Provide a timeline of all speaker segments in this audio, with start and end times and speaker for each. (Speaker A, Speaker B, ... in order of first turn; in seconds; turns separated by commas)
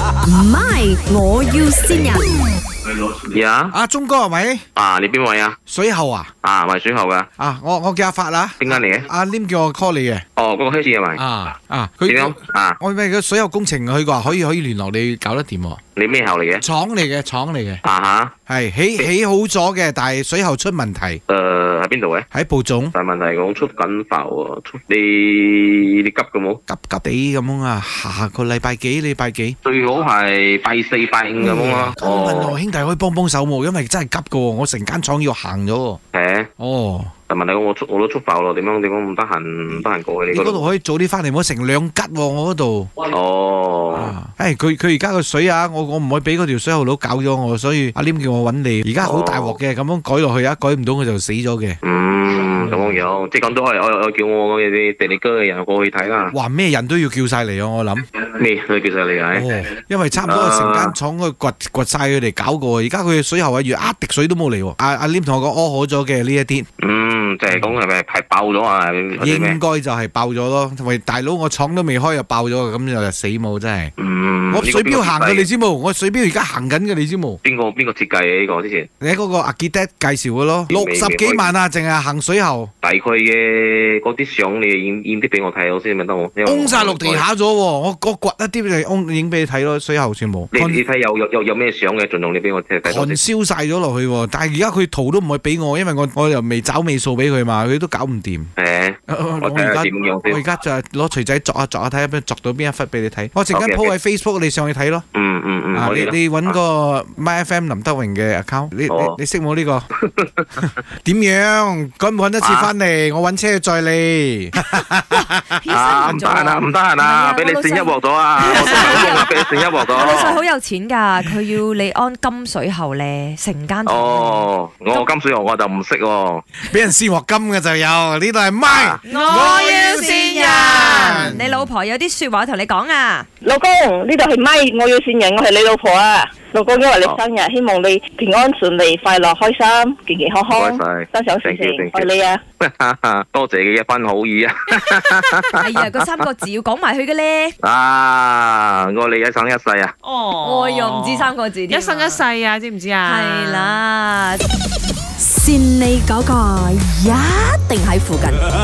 Speaker A: 0.2-2.2, Speaker B: 3.2-3.7, Speaker C: 3.7-4.6, Speaker B: 4.8-5.6, Speaker C: 5.7-6.3, Speaker B: 6.4-7.3, Speaker C: 7.4-10.2, Speaker B: 8.6-9.1, Speaker B: 10.4-11.2, Speaker C: 11.2-15.8, Speaker B: 12.1-12.8, Speaker B: 15.9-16.6, Speaker C: 16.6-17.8, Speaker B: 17.8-18.3, Speaker C: 18.5-21.2, Speaker B: 21.3-22.2, Speaker C: 22.3-22.9, Speaker B: 22.9-26.6, Speaker C: 26.7-29.6, Speaker B: 29.6-32.6, Speaker C: 31.4-36.0, Speaker B: 36.1-36.5, Speaker C: 36.6-37.1, Speaker B: 37.3-40.7, Speaker C: 40.3-42.9, Speaker B: 43.0-44.1, Speaker C: 43.9-51.8, Speaker B: 49.0-49.6, Speaker B: 51.8-56.3, Speaker C: 52.6-53.0, Speaker C: 56.3-58.1, Speaker B: 58.2-59.5, Speaker C: 59.3-66.7, Speaker B: 60.2-60.9, Speaker B: 66.8-69.6, Speaker C: 67.5-67.8, Speaker C: 69.2-73.9, Speaker B: 74.0-75.5, Speaker C: 74.5-77.4, Speaker B: 77.4-78.9, Speaker C: 79.0-82.7, Speaker B: 80.7-81.5, Speaker B: 82.8-87.2, Speaker C: 86.4-90.8, Speaker B: 90.5-93.2, Speaker C: 92.8-98.5, Speaker B: 98.6-100.4, Speaker C: 99.1-105.0, Speaker B: 103.5-103.9, Speaker B: 105.1-106.6, Speaker C: 105.7-109.8, Speaker B: 108.9-109.2, Speaker B: 110.0-110.7, Speaker C: 111.0-115.4, Speaker B: 112.4-112.7, Speaker D: 115.6-125.0, Speaker B: 115.7-120.4, Speaker C: 118.7-119.3, Speaker B: 123.8-126.4, Speaker C: 126.6-131.7, Speaker B: 128.7-129.0, Speaker D: 129.1-133.2, Speaker E: 129.1-129.4, Speaker E: 130.2-130.5, Speaker F: 133.4-142.4, Speaker B: 140.5-142.1, Speaker B: 142.6-146.1, Speaker D: 145.6-147.5, Speaker B: 147.6-149.9, Speaker E: 150.0-151.2, Speaker D: 150.3-152.3, Speaker E: 152.1-153.1, Speaker D: 153.0-154.4, Speaker A: 155.2-158.4